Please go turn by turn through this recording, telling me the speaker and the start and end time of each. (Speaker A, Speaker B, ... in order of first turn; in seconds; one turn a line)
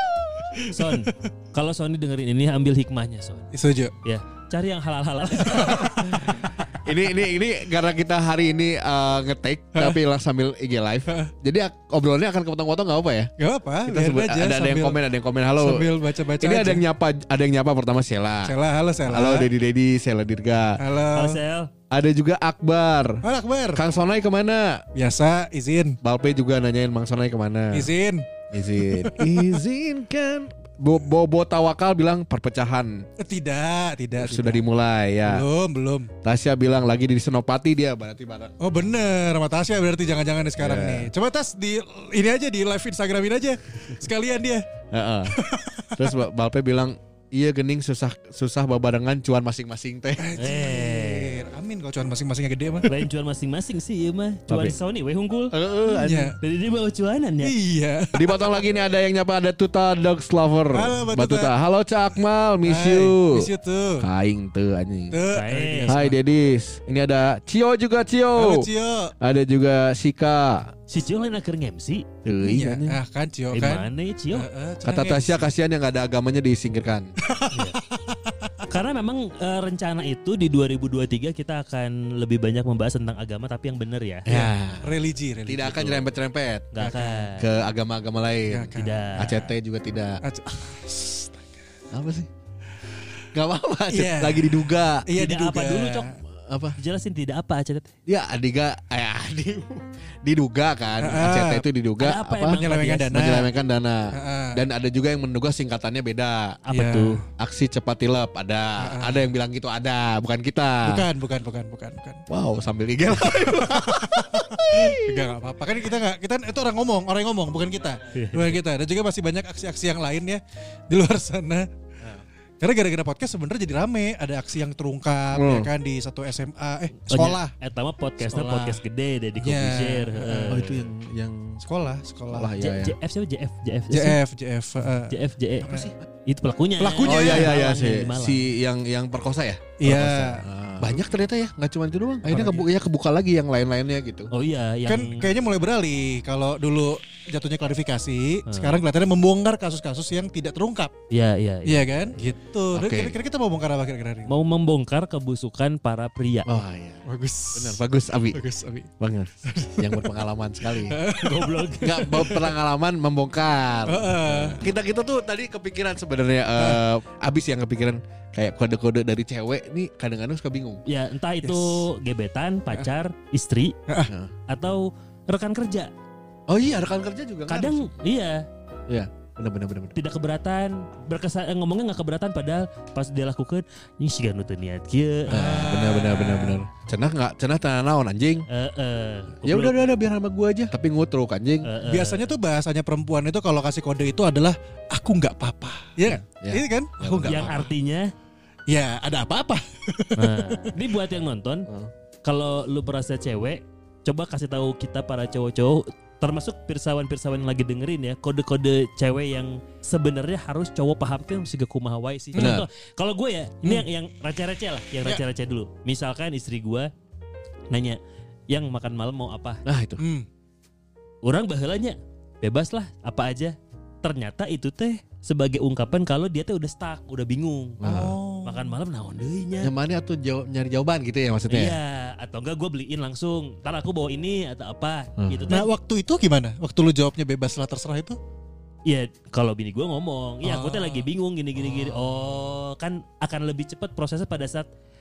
Speaker A: 0.6-1.0
Speaker B: 0.7-3.5
Speaker A: 3.5-3.9
Speaker B: 4.0-5.9
Speaker A: 5.4-6.3
Speaker C: 6.1-13.3
Speaker A: 13.4-15.0
Speaker C: 13.8-18.5
Speaker A: 15.6-16.8
Speaker A: 18.4-19.5
Speaker C: 19.1-20.7
Speaker A: 20.8-21.4
Speaker B: 21.1-21.7
Speaker C: 21.9-23.2
Speaker A: 23.2-23.8
Speaker C: 23.7-24.8
Speaker A: 24.9-26.0
Speaker C: 26.0-27.9
Speaker A: 27.7-28.2
Speaker C: 28.5-33.0
Speaker A: 28.9-29.6
Speaker A: 33.2-34.6
Speaker C: 34.2-35.5
Speaker A: 35.3-36.1
Speaker C: 36.2-38.5
Speaker A: 38.6-44.6
Speaker C: 40.6-41.1
Speaker C: 44.9-45.4
Speaker A: 45.3-46.1
Speaker C: 46.0-50.3
Speaker A: 50.2-52.9
Speaker B: 50.4-51.3
Speaker B: 52.9-55.5
Speaker C: 54.5-54.8
Speaker C: 55.5-56.4
Speaker A: 55.9-56.4
Speaker B: 56.4-57.5
Speaker A: 57.4-58.4
Speaker C: 58.1-63.5
Speaker A: 60.7-61.5
Speaker A: 62.7-64.0
Speaker C: 64.0-65.2
Speaker A: 65.1-66.2
Speaker B: 65.3-66.0
Speaker C: 65.9-68.7
Speaker A: 68.4-69.1
Speaker C: 69.2-70.7
Speaker B: 70.9-72.0
Speaker C: 72.2-73.0
Speaker A: 72.4-75.5
Speaker B: 73.5-74.5
Speaker C: 74.8-77.1
Speaker A: 77.3-78.6
Speaker B: 78.7-84.2
Speaker C: 84.3-84.8
Speaker A: 84.3-86.0
Speaker C: 85.5-86.7
Speaker B: 86.7-87.4
Speaker A: 86.8-87.3
Speaker C: 87.4-90.2
Speaker A: 88.5-88.9
Speaker B: 88.7-89.5
Speaker A: 90.2-91.6
Speaker C: 91.9-92.3
Speaker C: 93.3-95.0
Speaker A: 93.9-96.0
Speaker B: 95.2-96.1
Speaker C: 96.3-96.8
Speaker B: 96.8-97.9
Speaker C: 98.1-102.6
Speaker A: 101.0-101.6
Speaker B: 102.0-103.1
Speaker A: 102.5-103.5
Speaker C: 103.1-106.6
Speaker A: 104.2-104.5
Speaker B: 106.7-107.2
Speaker A: 106.7-107.2
Speaker C: 107.4-111.0
Speaker A: 108.8-109.3
Speaker A: 110.9-112.2
Speaker C: 112.3-115.3
Speaker A: 113.2-121.7
Speaker B: 118.1-118.6
Speaker A: 122.6-127.5
Speaker C: 125.3-125.7
Speaker B: 127.1-130.6
Speaker A: 128.2-128.8
Speaker A: 129.4-130.8
Speaker C: 130.5-131.6
Speaker A: 131.6-132.5
Speaker C: 132.3-132.9
Speaker B: 132.6-134.2
Speaker A: 133.9-135.9
Speaker B: 135.1-135.7
Speaker C: 135.7-135.9
Speaker B: 136.3-138.4
Speaker A: 136.8-137.5
Speaker C: 137.1-144.3
Speaker A: 139.8-140.4
Speaker A: 142.2-142.7
Speaker B: 144.3-145.3
Speaker A: 144.9-150.9
Speaker B: 148.5-148.8
Speaker B: 151.1-152.2
Speaker A: 151.7-154.3
Speaker C: 152.7-153.2
Speaker B: 154.3-156.5
Speaker C: 156.5-158.4
Speaker A: 157.1-157.8
Speaker A: 158.3-158.9
Speaker C: 159.0-161.0
Speaker A: 159.5-160.1
Speaker A: 160.9-162.5
Speaker B: 161.2-162.1
Speaker C: 161.8-170.8
Speaker A: 163.9-164.6
Speaker B: 170.9-173.7
Speaker A: 171.4-171.7
Speaker C: 174.1-174.3
Speaker B: 174.5-175.9
Speaker C: 176.5-177.8
Speaker B: 177.5-178.4
Speaker C: 178.9-179.9
Speaker B: 179.9-185.4
Speaker A: 185.3-186.6
Speaker C: 185.3-188.5
Speaker B: 188.5-189.9
Speaker C: 189.4-191.7
Speaker B: 191.7-192.3
Speaker A: 191.8-197.6
Speaker C: 196.1-197.7
Speaker B: 197.3-198.1
Speaker A: 198.7-200.7
Speaker B: 200.2-201.7
Speaker B: 202.2-216.9
Speaker A: 212.3-212.6
Speaker C: 212.4-212.7
Speaker B: 217.7-218.0
Speaker B: 218.5-219.6
Speaker C: 219.7-220.0
Speaker A: 220.0-220.3
Speaker B: 221.2-227.8
Speaker C: 227.8-228.2
Speaker A: 227.8-228.7
Speaker B: 228.4-229.7
Speaker C: 229.6-231.8
Speaker B: 231.5-235.7
Speaker C: 235.2-235.6
Speaker A: 235.5-238.2
Speaker B: 238.9-244.7
Speaker A: 240.4-241.1
Speaker A: 241.6-242.2